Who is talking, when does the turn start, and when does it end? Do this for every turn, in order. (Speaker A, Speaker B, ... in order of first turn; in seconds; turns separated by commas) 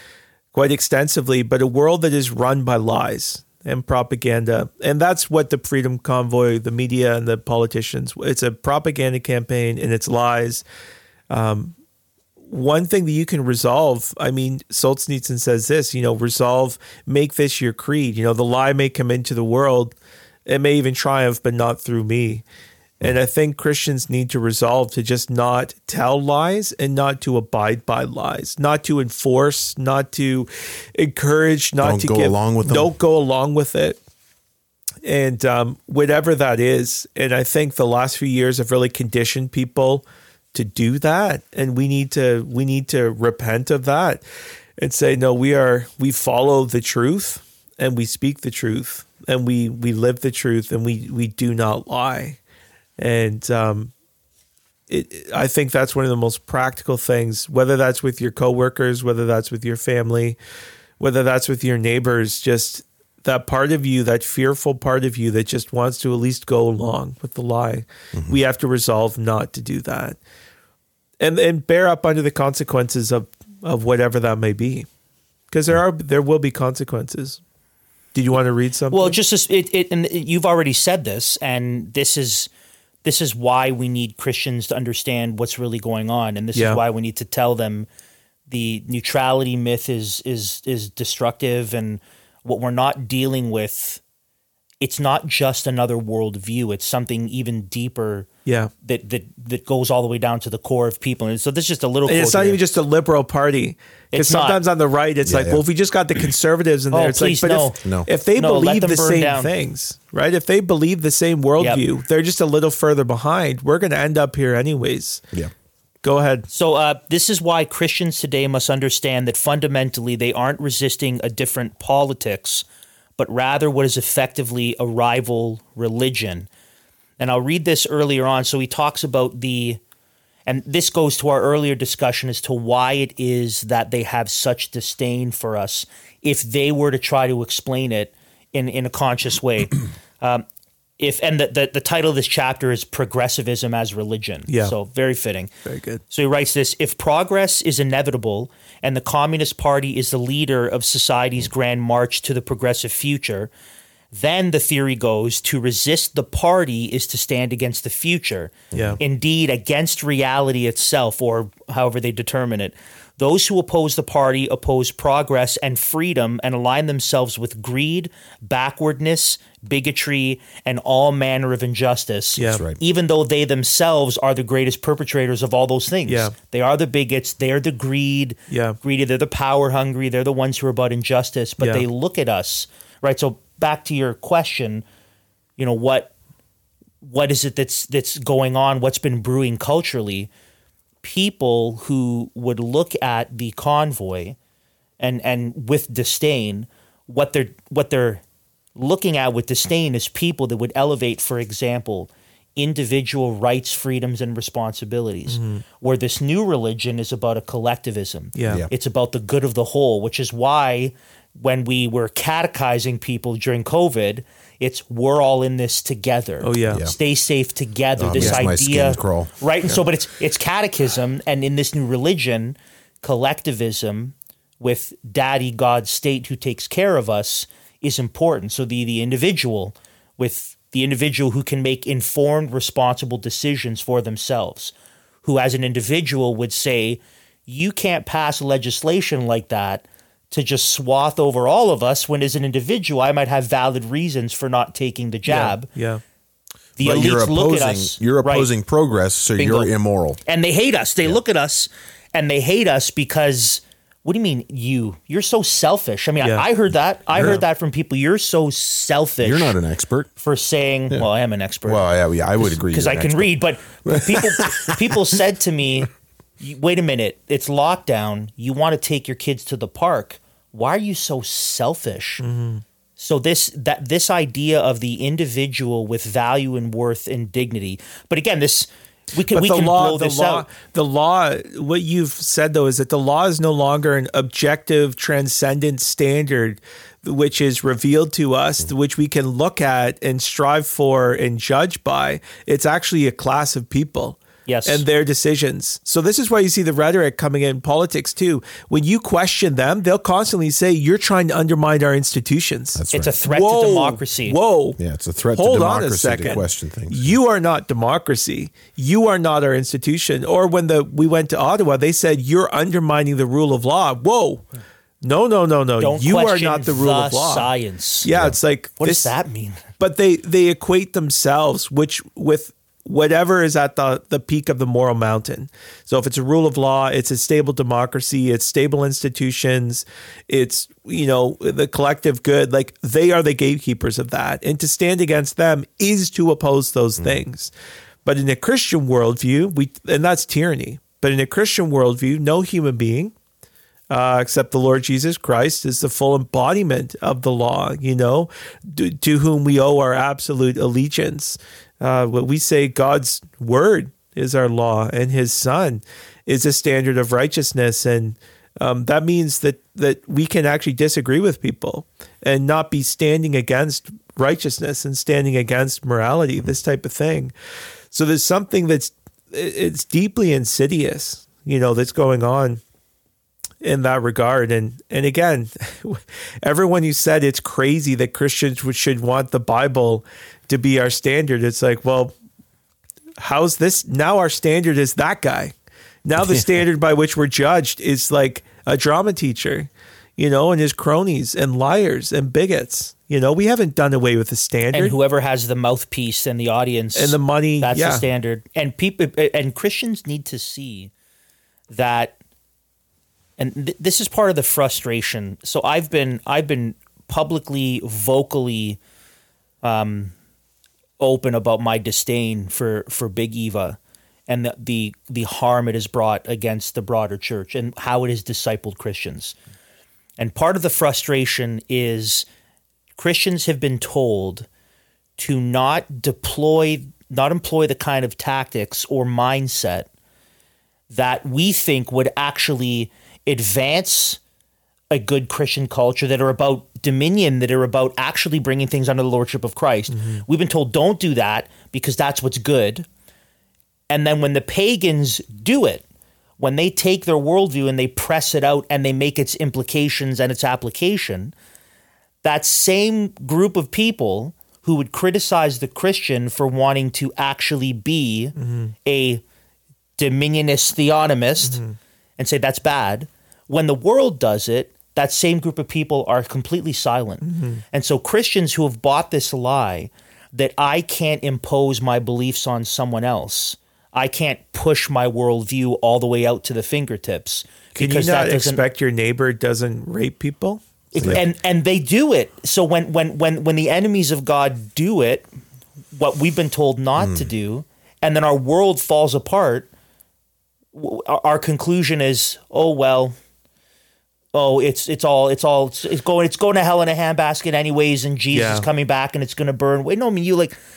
Speaker A: 0.5-10.6, Speaker A: 11.3-11.7, Speaker A: 12.4-19.9, Speaker A: 20.4-22.4, Speaker A: 23.0-34.0, Speaker B: 31.8-32.9, Speaker A: 35.0-44.2, Speaker A: 44.8-52.4, Speaker A: 53.0-53.9, Speaker A: 54.9-60.4, Speaker A: 61.0-70.2, Speaker A: 71.2-74.9, Speaker A: 75.5-77.4, Speaker A: 78.1-79.2, Speaker C: 78.9-82.5, Speaker C: 83.0-87.9, Speaker A: 86.5-86.8, Speaker C: 88.5-94.0, Speaker C: 94.8-98.3, Speaker A: 98.5-98.7, Speaker C: 98.8-102.6, Speaker A: 102.1-115.2, Speaker C: 104.1-104.6, Speaker B: 105.2-105.6, Speaker C: 106.9-107.8, Speaker C: 108.3-109.5, Speaker A: 116.0-116.5, Speaker C: 116.5-122.7, Speaker C: 123.2-126.5, Speaker C: 127.2-129.8, Speaker C: 130.5-140.4, Speaker C: 141.0-145.5, Speaker A: 144.5-144.7, Speaker A: 145.6-146.0, Speaker C: 146.1-153.5, Speaker C: 154.1-184.8, Speaker B: 158.7-159.0, Speaker A: 158.7-159.0, Speaker A: 172.4-172.6, Speaker B: 172.5-172.8, Speaker A: 176.1-176.3, Speaker A: 178.5-178.8, Speaker C: 185.6-186.1, Speaker C: 187.0-190.3, Speaker C: 191.0-194.4, Speaker C: 195.0-198.2, Speaker C: 198.8-245.7, Speaker A: 205.3-205.6, Speaker A: 208.3-208.6, Speaker A: 216.4-216.8, Speaker B: 216.7-216.9, Speaker B: 217.9-219.8, Speaker A: 218.2-218.4, Speaker A: 245.3-246.0, Speaker C: 246.8-248.5, Speaker B: 246.8-250.2, Speaker C: 249.4-249.7, Speaker C: 250.2-259.6, Speaker A: 256.2-256.4, Speaker A: 257.1-257.4, Speaker B: 259.2-260.1, Speaker C: 260.2-261.8, Speaker B: 261.6-265.0, Speaker C: 262.4-272.2, Speaker A: 272.2-272.6, Speaker C: 273.0-280.5, Speaker A: 279.3-304.8, Speaker C: 294.5-294.8, Speaker B: 302.7-303.2, Speaker C: 302.9-304.4, Speaker B: 304.8-307.1, Speaker A: 305.3-314.4, Speaker A: 315.0-317.5, Speaker C: 315.8-318.1, Speaker A: 318.0-319.1, Speaker B: 318.1-318.4, Speaker C: 318.8-319.6, Speaker A: 319.8-337.5, Speaker A: 338.0-343.1, Speaker A: 343.9-367.3, Speaker A: 367.9-372.6, Speaker A: 373.6-382.1, Speaker A: 383.2-385.5, Speaker A: 386.0-394.9, Speaker B: 386.2-386.4, Speaker C: 394.7-400.9, Speaker A: 396.9-398.0, Speaker C: 401.7-402.1, Speaker C: 403.4-408.8, Speaker C: 409.6-410.1, Speaker C: 411.0-419.4, Speaker C: 420.2-422.2, Speaker C: 423.0-424.5, Speaker C: 425.2-429.9, Speaker C: 430.9-434.2, Speaker C: 434.9-442.9, Speaker A: 439.9-440.2, Speaker C: 443.9-445.8, Speaker C: 446.4-451.3, Speaker C: 452.2-458.3, Speaker A: 458.4-458.7, Speaker C: 458.8-459.2, Speaker C: 460.0-461.6, Speaker A: 461.4-461.8, Speaker C: 462.2-478.6, Speaker A: 467.2-467.6, Speaker A: 477.8-481.2, Speaker C: 480.9-485.3, Speaker C: 485.9-489.7, Speaker B: 487.0-487.3, Speaker C: 490.7-493.1, Speaker C: 494.3-500.6, Speaker A: 498.3-498.7